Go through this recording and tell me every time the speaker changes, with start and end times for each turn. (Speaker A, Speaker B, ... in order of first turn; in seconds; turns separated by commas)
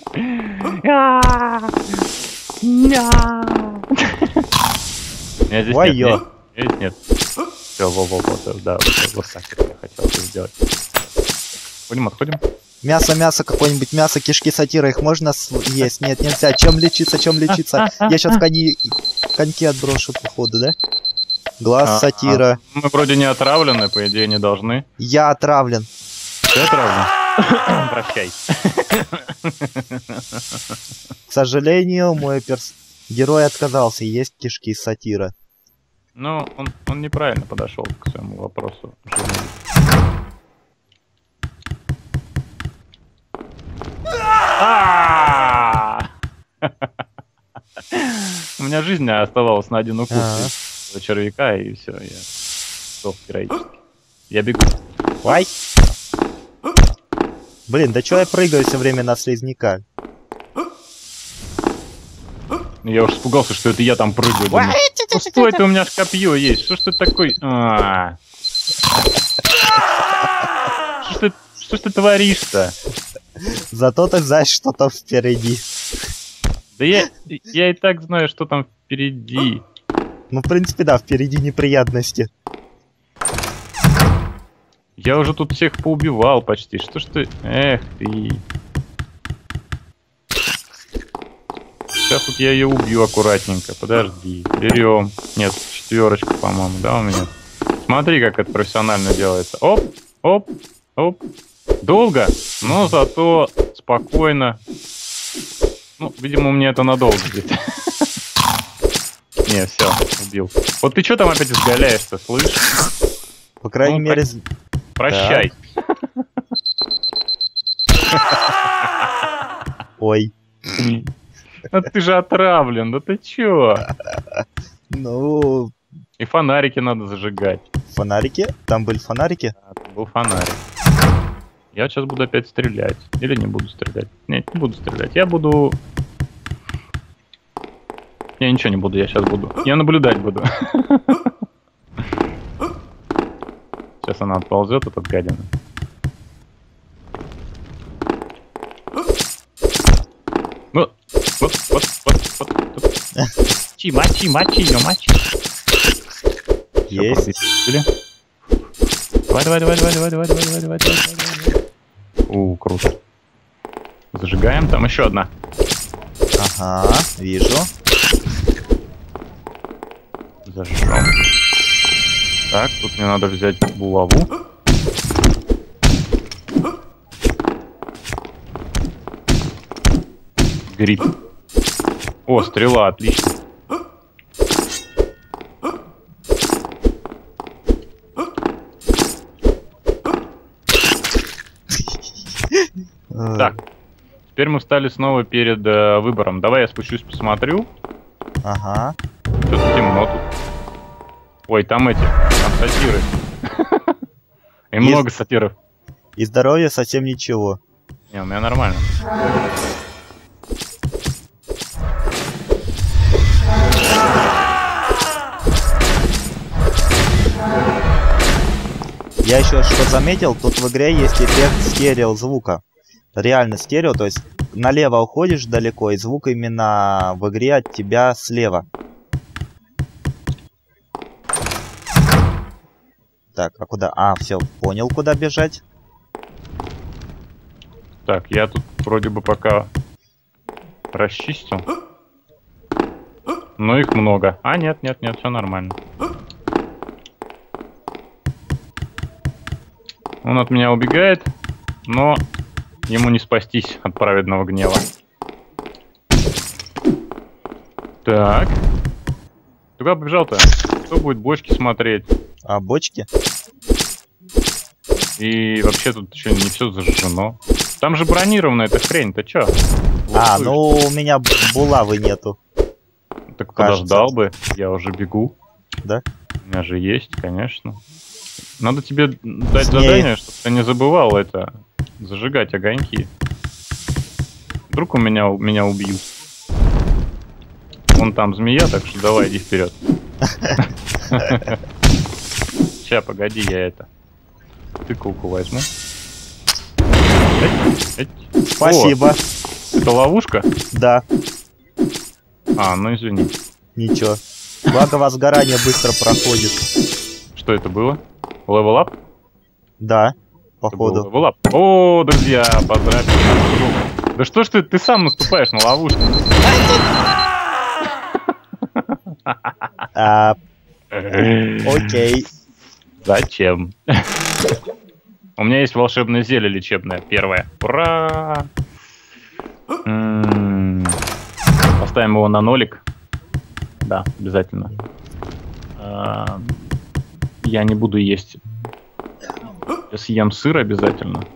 Speaker A: 0.1-1.8, Speaker A: 2.6-4.3, Speaker A: 5.5-7.0, Speaker B: 5.7-6.2, Speaker A: 7.8-10.5, Speaker A: 11.9-12.4, Speaker B: 12.8-20.8, Speaker A: 17.5-18.4, Speaker B: 21.6-22.6, Speaker A: 21.8-24.9, Speaker B: 25.0-25.9, Speaker A: 26.5-30.4, Speaker B: 31.3-35.3, Speaker A: 36.2-39.6, Speaker A: 44.6-46.1, Speaker A: 46.6-46.9, Speaker A: 47.9-52.3, Speaker B: 50.1-50.5, Speaker A: 53.0-53.7, Speaker A: 54.3-54.8, Speaker B: 55.2-55.5, Speaker B: 57.7-59.8, Speaker A: 62.8-68.2, Speaker B: 64.5-65.6, Speaker A: 71.0-72.8, Speaker B: 73.7-75.8, Speaker A: 76.8-79.7, Speaker B: 80.3-82.3, Speaker A: 85.0-88.4, Speaker A: 92.0-97.3, Speaker A: 97.9-101.2, Speaker A: 101.8-104.6, Speaker A: 106.0-108.1, Speaker A: 109.5-112.7, Speaker B: 113.6-114.4, Speaker A: 113.8-114.2, Speaker A: 115.0-115.6, Speaker B: 115.1-115.5, Speaker B: 120.0-120.3, Speaker A: 120.8-121.0, Speaker A: 121.7-123.9, Speaker B: 124.9-125.8, Speaker A: 126.2-127.6, Speaker B: 127.9-129.5, Speaker A: 129.6-130.6, Speaker A: 131.7-135.8, Speaker A: 138.4-141.3, Speaker A: 144.0-145.5, Speaker A: 150.7-152.9, Speaker A: 153.8-155.3, Speaker A: 156.9-157.9, Speaker B: 156.9-157.3, Speaker A: 159.3-161.5, Speaker A: 162.3-163.0, Speaker A: 164.1-165.3, Speaker B: 166.4-167.7, Speaker A: 170.5-171.2, Speaker A: 172.5-174.3, Speaker A: 180.7-181.1, Speaker A: 182.3-183.3, Speaker B: 192.5-193.5, Speaker A: 194.3-197.7, Speaker B: 198.4-198.9, Speaker A: 199.5-200.3, Speaker A: 201.5-203.8, Speaker A: 204.7-205.6, Speaker B: 204.8-205.1, Speaker B: 206.2-207.6, Speaker A: 208.1-208.8, Speaker B: 219.2-222.6, Speaker B: 223.2-228.7, Speaker B: 233.4-235.6, Speaker A: 238.1-239.7, Speaker A: 240.9-241.7, Speaker A: 243.6-245.8, Speaker A: 250.2-251.3, Speaker A: 251.9-252.2, Speaker A: 252.9-254.9, Speaker A: 258.1-258.6, Speaker A: 259.8-262.1, Speaker B: 262.5-263.1, Speaker A: 265.2-269.5, Speaker A: 270.1-270.6, Speaker B: 270.1-272.4, Speaker A: 273.3-275.4, Speaker B: 273.6-274.1, Speaker A: 276.4-277.8, Speaker A: 278.6-283.1, Speaker B: 279.6-280.1, Speaker A: 284.7-286.1, Speaker A: 287.9-289.8, Speaker B: 290.3-290.6, Speaker A: 290.6-291.6, Speaker A: 292.8-293.9, Speaker A: 294.9-295.7, Speaker A: 297.4-299.0, Speaker B: 298.5-299.2, Speaker A: 299.8-300.5, Speaker B: 300.7-301.1, Speaker A: 302.6-303.3, Speaker B: 303.8-306.6, Speaker A: 307.4-308.9, Speaker B: 309.8-311.1, Speaker A: 310.7-316.1, Speaker A: 318.7-319.6, Speaker B: 319.9-320.4, Speaker A: 320.9-322.0, Speaker B: 321.6-322.3, Speaker A: 323.0-324.1, Speaker A: 325.4-328.5, Speaker A: 329.9-331.0, Speaker A: 331.8-332.8, Speaker A: 333.8-334.7, Speaker A: 335.8-336.7, Speaker A: 337.4-338.4, Speaker A: 339.9-341.3